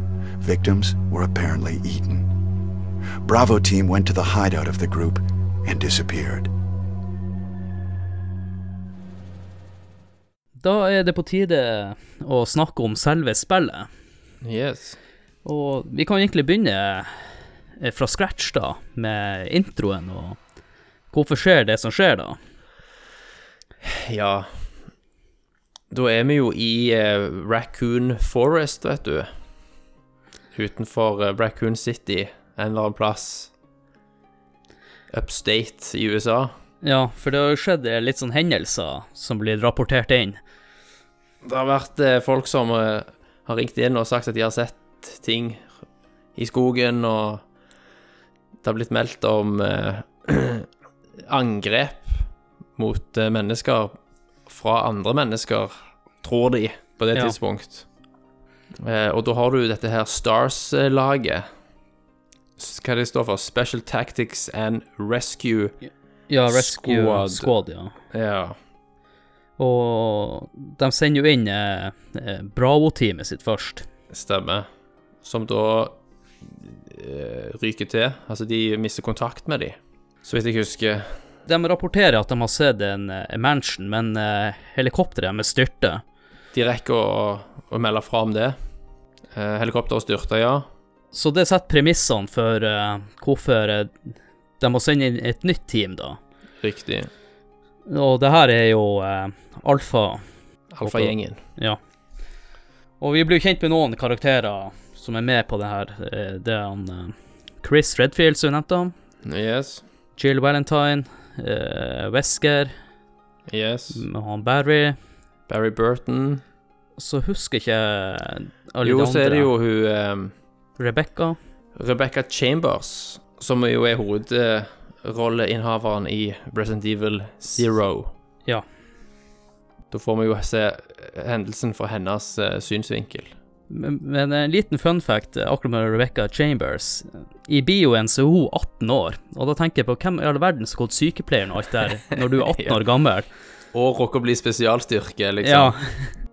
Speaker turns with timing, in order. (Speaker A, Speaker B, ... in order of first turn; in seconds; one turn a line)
Speaker A: 0.4-2.3
Speaker A: 3.2-6.5
Speaker B: 10.6-13.9
Speaker C: 14.4-15.0
Speaker B: 15.4-20.4
Speaker B: 21.1-22.4
Speaker C: 23.8-24.7
Speaker C: 25.9-29.3
Speaker C: 30.5-33.5
Speaker C: 35.1-36.5
Speaker B: 36.8-40.4
Speaker C: 41.4-45.7
Speaker C: 46.4-47.4
Speaker C: 48.6-50.7
Speaker C: 51.2-53.9
Speaker C: 54.5-57.9
Speaker C: 58.8-61.5
Speaker C: 62.6-65.8
Speaker B: 66.3-67.9
Speaker C: 66.5-67.5
Speaker C: 68.1-68.5
Speaker B: 69.6-73.9
Speaker C: 74.1-74.7
Speaker C: 75.2-81.2
Speaker B: 81.5-86.0
Speaker C: 86.5-88.6
Speaker C: 89.3-90.7
Speaker B: 91.1-96.2
Speaker C: 96.6-97.1
Speaker B: 97.9-100.2
Speaker C: 100.7-101.4
Speaker B: 100.8-101.8
Speaker B: 103.0-108.9
Speaker C: 109.2-109.8
Speaker B: 110.2-112.7
Speaker C: 113.5-114.0
Speaker B: 113.9-115.0
Speaker C: 115.5-116.4
Speaker B: 117.0-119.5
Speaker C: 118.8-120.3
Speaker B: 120.8-121.4
Speaker C: 121.7-128.1
Speaker C: 129.9-133.3
Speaker B: 133.7-143.3
Speaker C: 142.1-142.8
Speaker C: 143.7-145.8
Speaker B: 145.4-146.2